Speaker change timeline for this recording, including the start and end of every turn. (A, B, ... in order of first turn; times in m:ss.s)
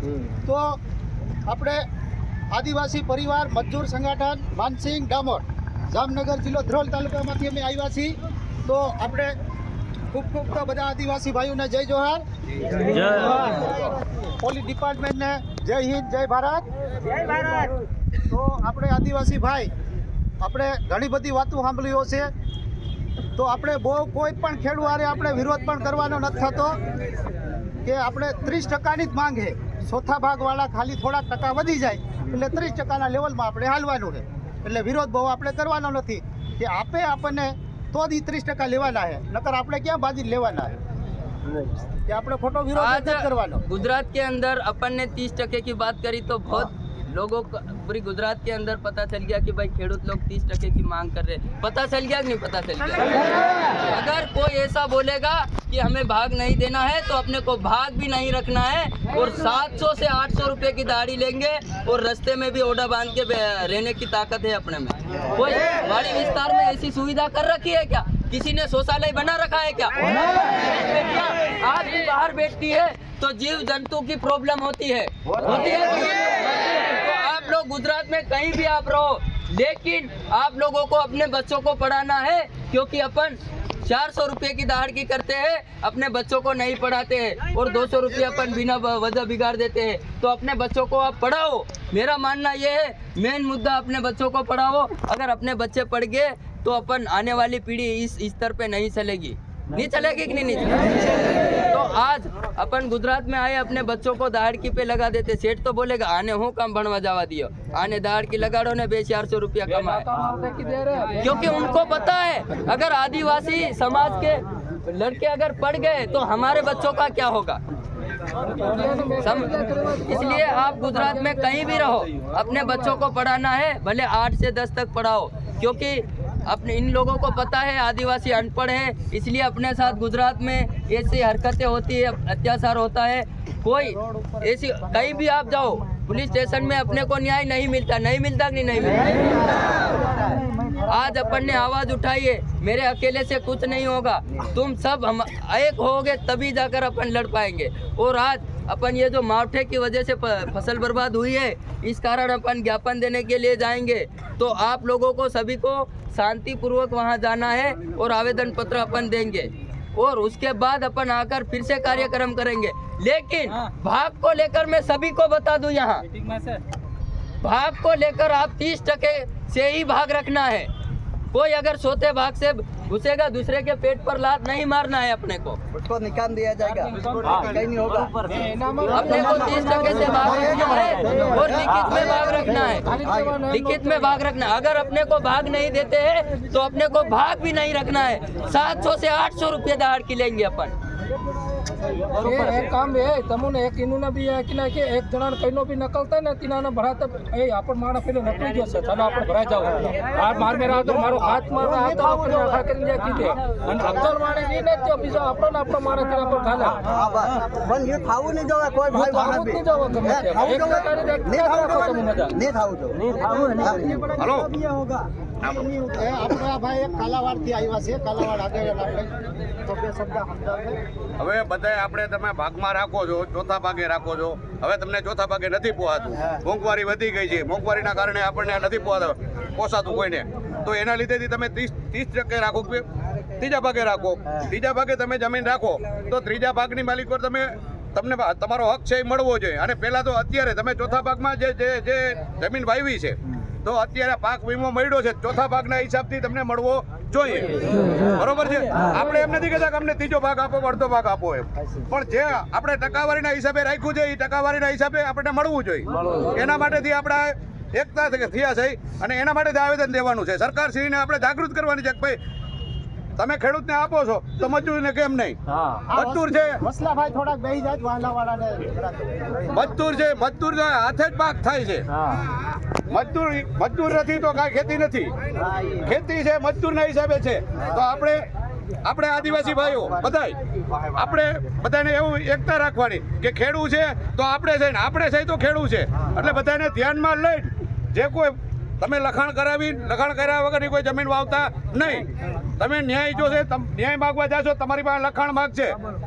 0:01.5-0:01.8 A
0:02.5-0:09.3 A
0:10.1-0:12.2 A
0:12.9-0:13.8 A
0:14.4-0:16.6 A
0:18.3-0:19.7 A
0:20.4-0:22.3 A
0:23.4-0:26.8 A
0:27.8-0:40.7 A
0:42.1-0:43.6 A
0:42.8-1:50.1 B
1:49.9-1:51.3 C
1:51.2-1:57.6 B
1:58.5-2:00.1 C
1:58.9-2:19.9 B
2:20.8-2:46.3 B
2:47.4-2:50.7 B
2:51.3-2:55.6 B
2:55.7-2:58.3 D
2:57.2-2:57.5 C
2:58.3-3:00.6 C
2:58.9-3:02.9 B
2:59.0-3:03.4 D
3:02.9-3:03.8 C
3:03.4-3:10.7 B
3:12.2-3:26.8 C
3:20.8-3:22.4 A
3:26.8-3:35.0 D
3:28.9-3:32.3 C
3:33.1-3:34.1 A
3:34.2-3:34.5 E
3:35.4-3:40.8 A
3:41.2-3:52.8 E
3:53.4-4:22.2 E
4:23.2-4:25.4 E
4:25.9-4:29.5 A
4:25.9-4:26.6 E
4:29.5-4:31.9 E
4:32.9-4:35.2 E
4:35.7-4:38.2 E
4:38.8-4:55.8 E